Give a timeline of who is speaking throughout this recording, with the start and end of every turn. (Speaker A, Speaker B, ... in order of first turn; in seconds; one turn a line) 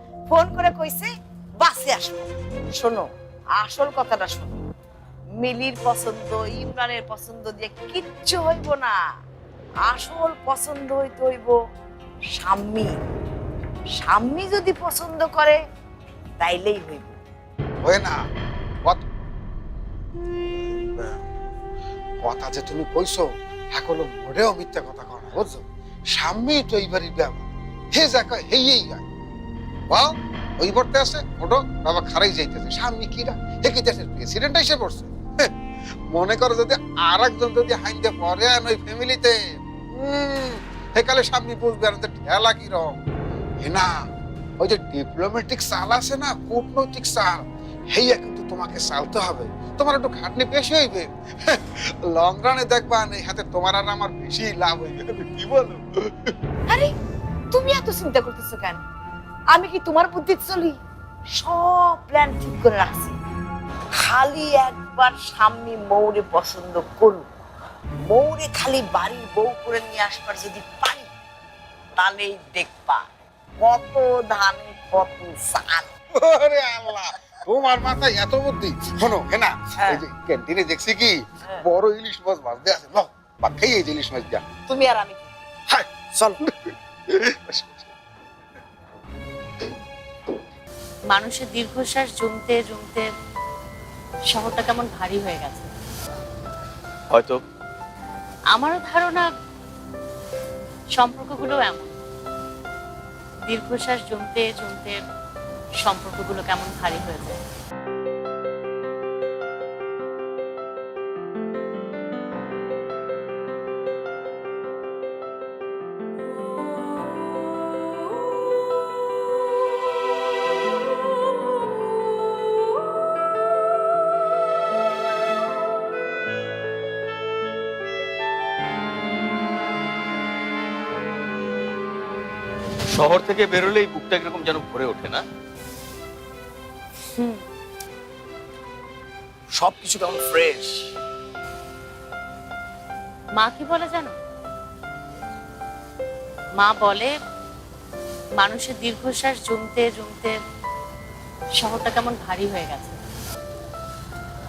Speaker A: 0.3-4.6
Speaker A: 5.3-9.0
Speaker A: 9.8-11.6
Speaker A: 12.3-13.0
Speaker A: 14.0-15.6
Speaker A: 16.4-17.2
Speaker B: 17.8-18.2
Speaker B: 20.7-21.2
Speaker B: 22.2-25.6
Speaker B: 26.1-29.0
Speaker B: 29.9-35.5
Speaker B: 36.1-39.4
Speaker B: 40.0-43.0
Speaker B: 43.6-43.9
Speaker B: 44.6-47.4
Speaker B: 47.9-55.2
Speaker C: 55.2-56.1
Speaker A: 57.5-58.8
Speaker A: 59.5-60.8
Speaker A: 61.4-63.1
Speaker A: 64.0-67.2
Speaker A: 68.0-71.1
Speaker A: 72.0-73.0
Speaker A: 73.6-75.9
Speaker B: 76.2-84.5
Speaker A: 84.6-85.5
Speaker B: 85.7-87.8
Speaker D: 91.1-93.1
Speaker D: 94.3-95.7
Speaker C: 97.1-97.4
Speaker D: 98.5-99.3
Speaker D: 101.0-102.0
Speaker D: 103.5-105.0
Speaker D: 105.8-107.4
Speaker C: 132.9-135.2
Speaker C: 139.5-140.9
Speaker D: 143.4-144.1
Speaker D: 146.6-147.1
Speaker D: 148.4-150.3
Speaker D: 151.6-153.0